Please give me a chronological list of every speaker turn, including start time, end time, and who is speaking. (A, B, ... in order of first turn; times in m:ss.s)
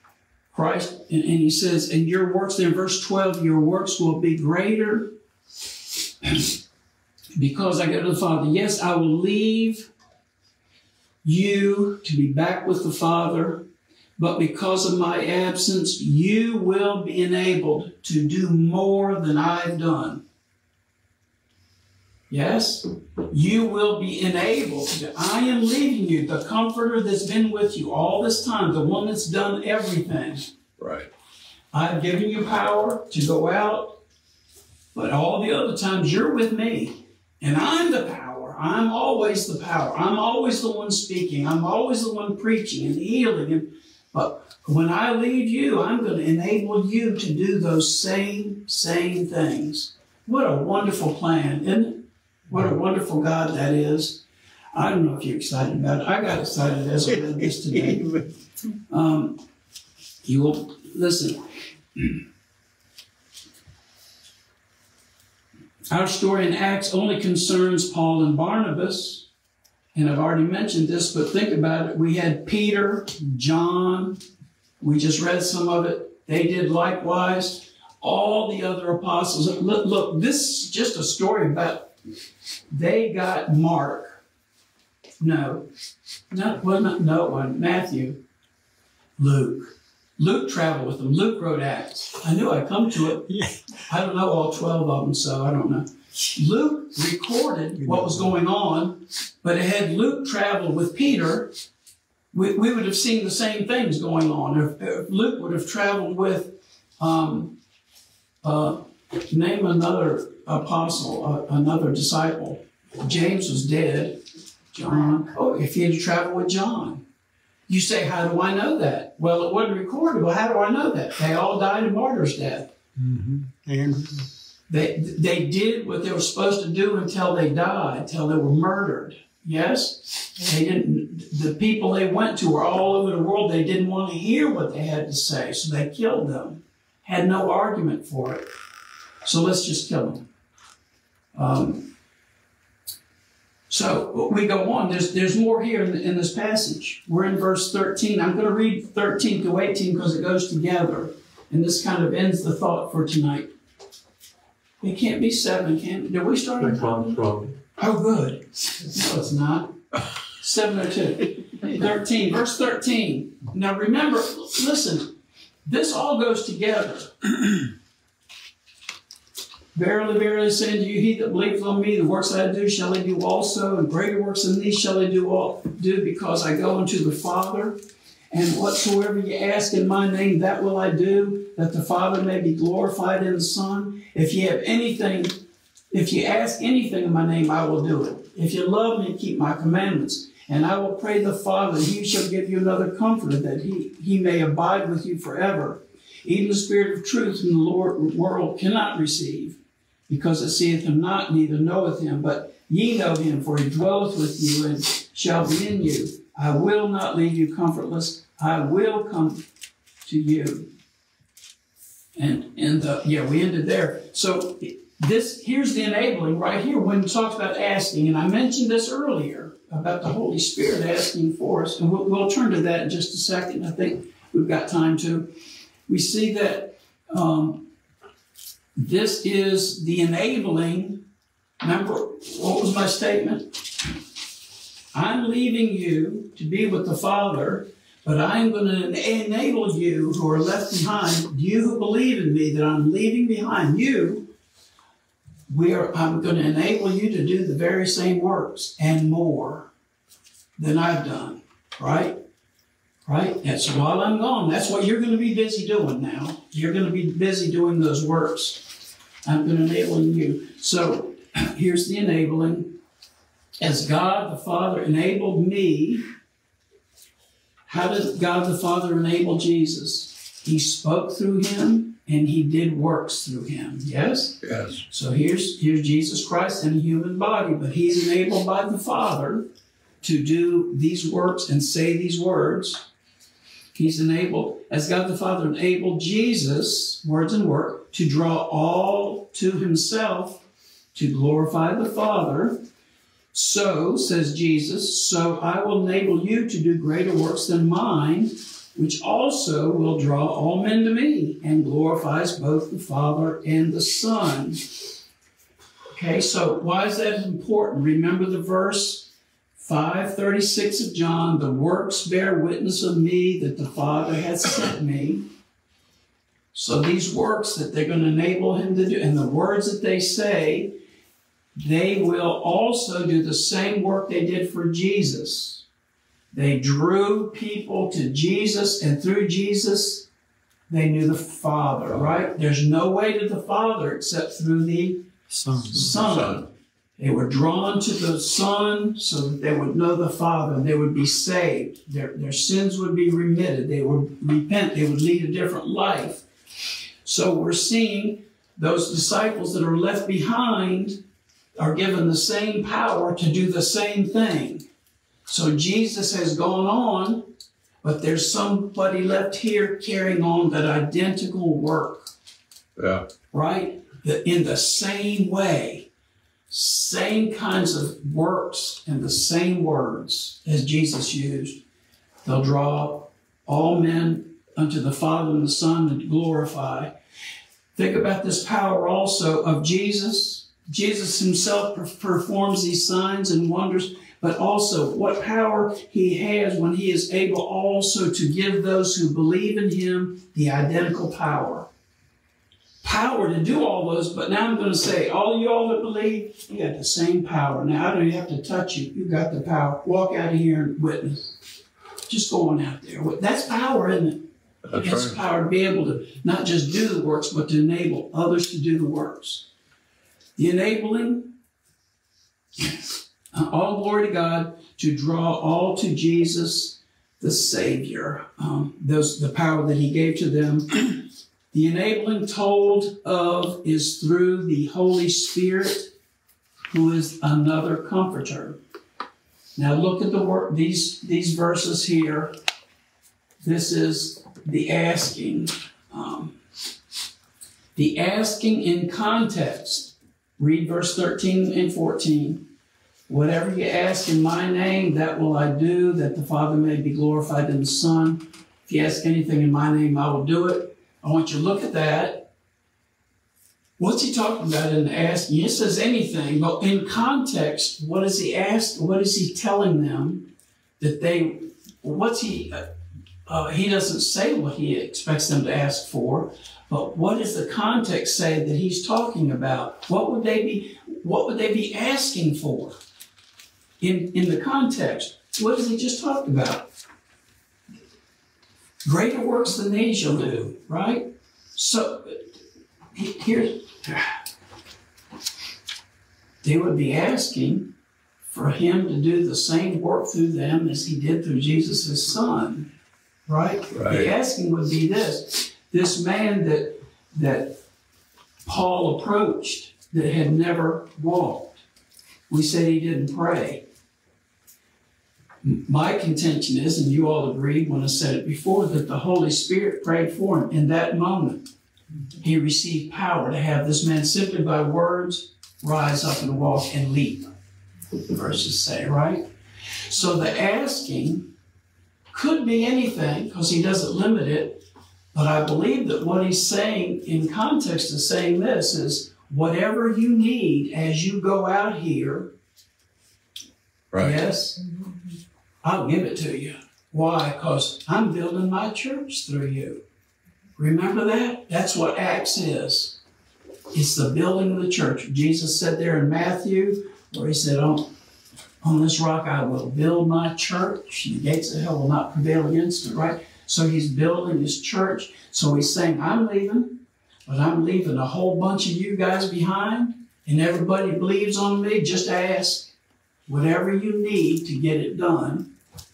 0:00.5-0:05.1 A
0:06.2-0:06.5 A
0:07.4-0:09.9 A
0:11.2-0:13.6 A
0:14.2-0:20.2 A
0:22.3-0:30.5 A
0:30.8-0:31.1 B
0:31.7-0:34.0 A
0:34.9-0:54.2 A
0:54.7-0:58.1 A
0:58.9-0:59.4 A
1:00.2-1:01.4 A
1:05.9-1:09.2 A
1:09.9-1:14.2 A
1:14.8-1:21.9 A
1:22.7-1:24.2 A
1:25.2-1:25.7 A
1:26.3-1:28.2 A
1:29.2-1:33.3 A
1:33.3-1:33.6 C
1:33.9-1:41.5 A
1:37.8-1:38.3 C
1:42.3-1:47.6 A
1:48.4-1:54.2 A
1:54.7-1:57.0 A
1:57.7-2:02.7 A
2:03.0-2:04.3 C
2:04.7-2:18.5 A
2:19.2-2:20.3 A
2:21.3-2:21.9 A
2:23.7-2:33.5 A
2:34.8-2:39.8 A
2:40.4-2:45.1 A
2:45.6-2:47.2 A
2:49.7-2:57.8 A
2:58.3-3:05.4 A
3:05.9-3:19.6 A
3:20.1-3:29.4 A
3:30.0-3:30.7 A
3:32.2-3:45.3 A
3:45.9-3:47.7 A
3:48.8-3:51.0 A
3:51.6-3:53.8 A
3:54.9-4:04.3 A
4:05.5-4:09.7 A
4:10.6-4:12.2 A
4:13.0-4:18.7 A
4:19.2-4:22.8 A
4:23.6-4:26.0 A
4:27.6-4:39.4 A
4:34.4-4:34.8 B
4:40.0-4:42.8 A
4:43.7-4:50.4 A
4:50.9-4:52.6 A
4:53.3-5:04.6 A
5:05.9-5:15.2 A
5:16.5-5:20.8 A
5:21.6-5:25.6 A
5:26.3-5:30.0 A
5:30.7-5:35.0 A
5:31.9-5:32.2 B
5:35.3-5:35.9 C
5:35.7-5:46.2 A
5:35.9-5:36.4 B
5:47.0-5:51.0 A
5:51.6-5:54.7 A
5:55.3-5:57.3 A
5:57.8-6:02.1 A
6:02.8-6:03.0 B
6:03.3-6:05.9 A
6:06.5-6:11.6 A
6:12.2-6:16.9 A
6:17.7-6:31.7 A
6:32.8-6:41.4 A
6:42.1-6:44.2 A
6:44.6-6:45.2 B
6:44.8-6:49.4 A
6:50.4-6:51.3 A
6:53.3-7:00.8 A
7:01.5-7:05.9 A
7:06.7-7:08.6 A
7:09.6-7:12.4 A
7:13.4-7:16.4 A
7:17.7-7:22.4 A
7:23.1-7:32.3 A
7:33.8-7:40.3 A
7:40.8-7:42.7 A
7:43.2-7:52.8 A
7:53.8-7:56.7 A
7:58.8-8:02.2 A
8:02.9-8:04.2 A
8:06.4-8:07.7 A
8:08.3-8:12.7 A
8:13.3-8:17.6 A
8:13.7-8:14.1 B
8:18.4-8:21.6 A
8:22.3-8:23.6 A
8:25.4-8:31.5 A
8:32.2-8:37.3 A
8:38.1-8:39.2 A
8:39.9-8:41.3 A
8:42.1-8:44.6 A
8:45.1-8:52.3 A
8:53.9-8:54.2 B
8:54.0-8:54.6 A
8:55.6-8:59.8 A
9:00.6-9:03.0 A
9:03.7-9:07.9 A
9:08.6-9:22.7 A
9:23.3-9:25.5 A